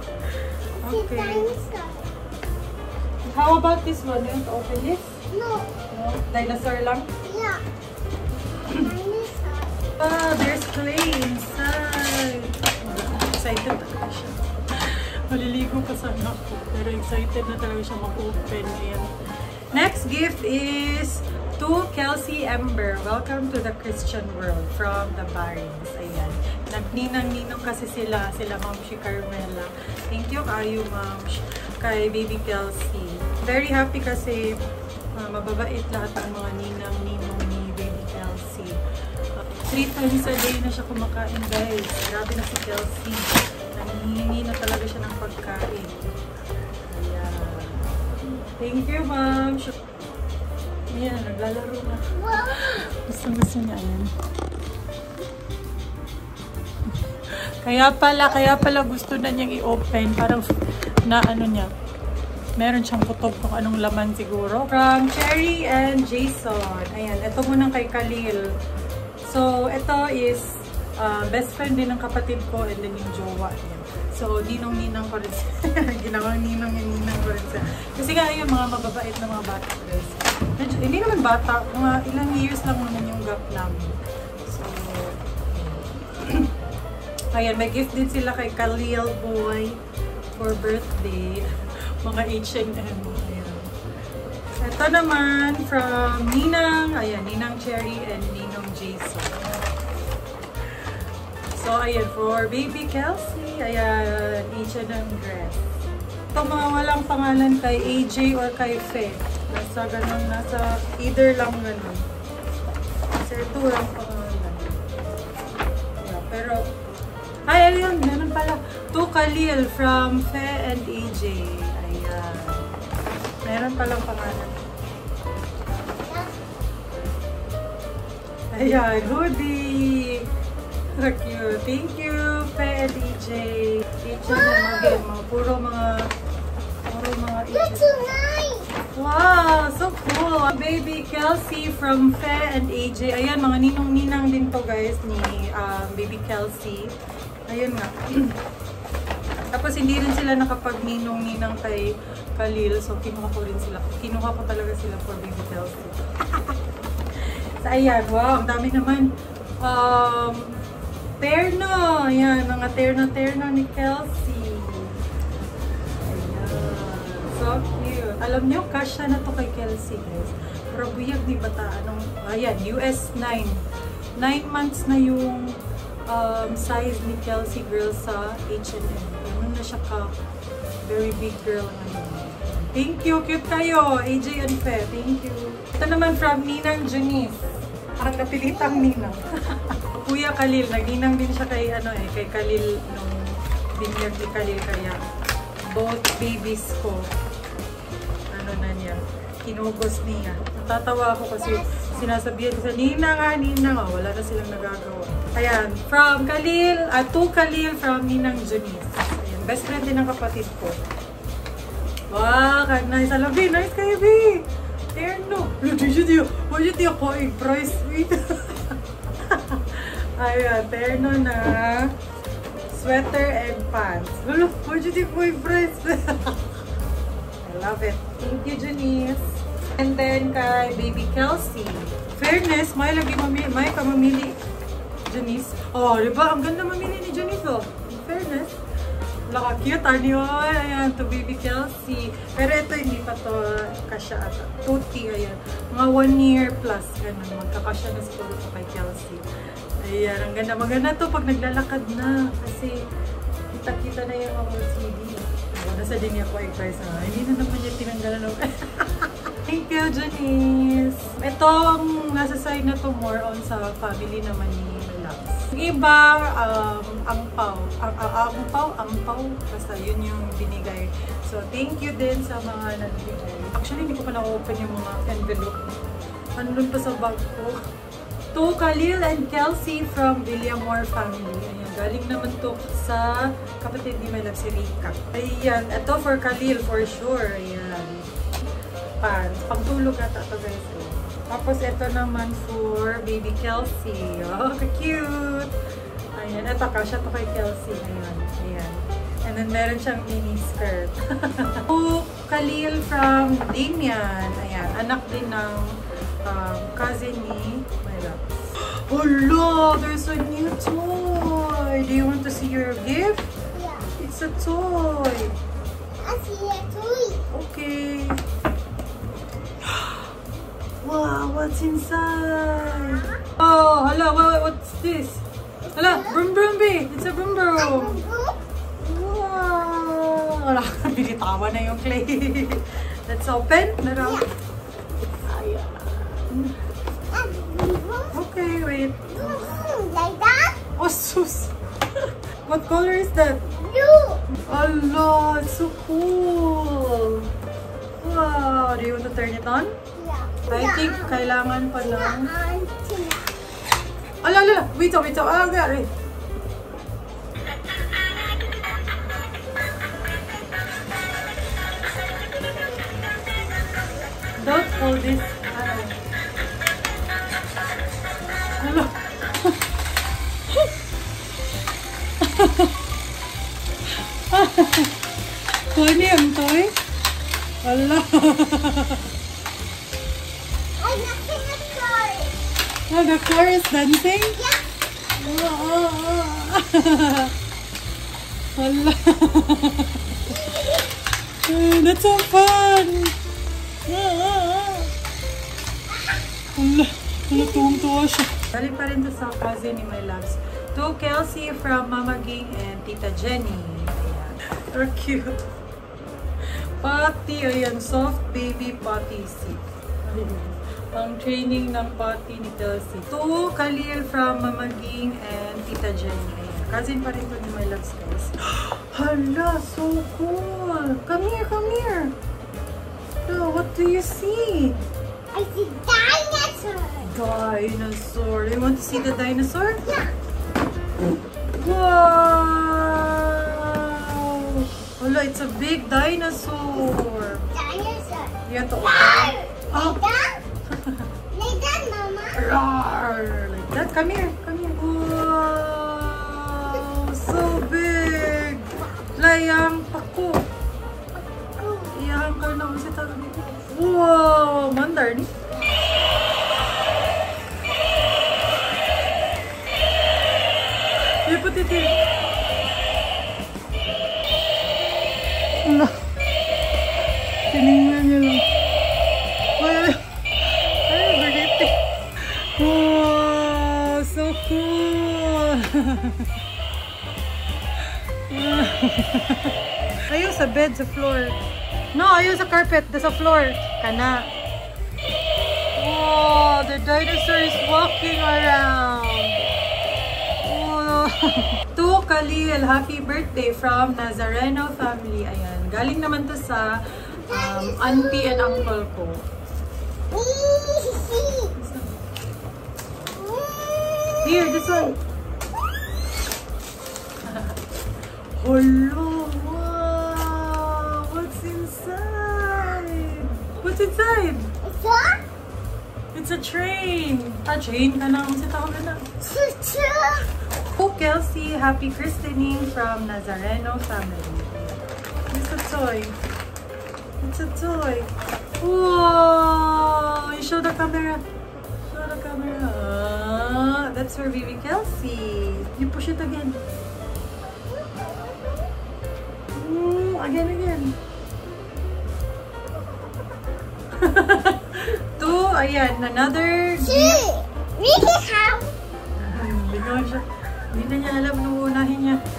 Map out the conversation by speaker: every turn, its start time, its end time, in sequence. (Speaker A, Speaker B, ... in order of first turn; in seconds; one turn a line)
Speaker A: 0.8-1.5
Speaker B: 0.8-2.1
Speaker A: 3.3-5.2
Speaker B: 5.3-5.7
Speaker A: 5.9-7.1
Speaker B: 7.2-7.6
Speaker B: 8.7-9.8
Speaker A: 10.0-19.1
Speaker A: 19.7-34.6
Speaker A: 35.2-38.8
Speaker A: 39.4-46.1
Speaker A: 46.9-49.8
Speaker A: 50.9-54.1
Speaker B: 52.1-52.9
Speaker A: 57.6-60.5
Speaker A: 61.1-61.7
Speaker A: 62.6-68.5
Speaker A: 69.2-86.5
Speaker A: 87.3-89.8
Speaker A: 90.4-91.5
Speaker A: 92.0-93.7
Speaker A: 94.6-99.5
Speaker A: 101.5-105.6
Speaker A: 106.3-112.0
Speaker A: 113.2-114.8
Speaker A: 116.0-116.6
Speaker A: 117.5-122.7
Speaker A: 123.5-124.6
Speaker B: 126.1-126.5
Speaker A: 128.5-130.2
Speaker A: 130.9-136.1
Speaker B: 134.2-135.0
Speaker A: 136.9-137.9
Speaker B: 137.5-138.7
Speaker A: 138.9-146.9
Speaker A: 147.5-148.4
Speaker A: 149.5-156.0
Speaker A: 157.3-160.6
Speaker A: 161.2-165.0
Speaker A: 166.0-173.6
Speaker A: 174.2-175.6
Speaker A: 176.1-180.1
Speaker A: 180.8-187.4
Speaker A: 188.0-195.0
Speaker B: 188.5-188.9
Speaker A: 195.7-197.1
Speaker A: 198.3-210.8
Speaker B: 201.4-202.1
Speaker A: 212.1-221.9
Speaker A: 222.7-226.5
Speaker A: 227.4-234.4
Speaker A: 235.1-238.6
Speaker A: 239.3-249.3
Speaker A: 249.8-252.8
Speaker A: 253.5-275.8
Speaker A: 276.4-277.6
Speaker A: 278.3-288.1
Speaker A: 289.0-295.5
Speaker A: 296.2-313.3
Speaker B: 313.5-313.9
Speaker A: 314.0-315.4
Speaker B: 316.0-317.2
Speaker A: 317.3-318.2
Speaker A: 319.6-320.1
Speaker A: 320.8-325.2
Speaker B: 325.7-326.2
Speaker A: 325.8-328.0
Speaker B: 327.6-328.4
Speaker A: 328.8-334.2
Speaker B: 334.0-334.3
Speaker A: 335.1-336.5
Speaker B: 337.1-338.2
Speaker A: 338.1-339.6
Speaker B: 339.1-340.6
Speaker A: 340.8-341.5
Speaker A: 342.5-343.5
Speaker B: 343.5-344.2
Speaker A: 344.4-347.3
Speaker A: 348.0-349.7
Speaker B: 350.0-353.3
Speaker A: 350.5-352.3
Speaker A: 354.2-355.9
Speaker A: 364.4-366.0
Speaker A: 368.6-369.5
Speaker A: 372.2-372.7
Speaker A: 374.3-374.9
Speaker A: 375.7-376.8
Speaker A: 377.6-379.0
Speaker B: 380.8-382.3
Speaker A: 382.9-384.4
Speaker A: 385.2-387.3
Speaker A: 388.6-390.0
Speaker B: 390.3-390.9
Speaker A: 391.5-393.1
Speaker A: 393.9-394.9
Speaker A: 396.6-405.4
Speaker B: 397.3-397.7
Speaker A: 406.8-422.1
Speaker A: 423.3-424.8
Speaker B: 425.3-427.1
Speaker A: 427.0-429.8
Speaker B: 429.8-430.1
Speaker A: 431.6-437.5
Speaker B: 437.5-440.4
Speaker A: 438.4-440.0
Speaker B: 441.3-442.4
Speaker A: 442.4-450.4
Speaker A: 451.8-455.3
Speaker B: 455.5-455.8
Speaker A: 461.2-461.9
Speaker A: 465.6-466.0
Speaker A: 467.5-468.4
Speaker A: 469.6-470.0
Speaker A: 470.9-476.3
Speaker A: 478.3-479.5
Speaker A: 480.1-481.4
Speaker A: 481.9-484.3
Speaker A: 485.8-489.4
Speaker A: 490.4-499.2
Speaker B: 497.3-498.7
Speaker B: 500.1-501.5
Speaker A: 501.5-502.0
Speaker B: 503.1-504.9
Speaker A: 504.2-505.0
Speaker A: 507.2-507.6
Speaker A: 508.4-514.5
Speaker B: 514.6-515.2
Speaker A: 516.1-519.2
Speaker B: 519.3-520.3
Speaker A: 520.8-526.2
Speaker A: 527.2-531.2
Speaker A: 531.9-536.6
Speaker B: 537.7-538.7
Speaker A: 539.5-541.0
Speaker A: 544.0-547.3
Speaker B: 546.8-548.7
Speaker A: 549.2-552.2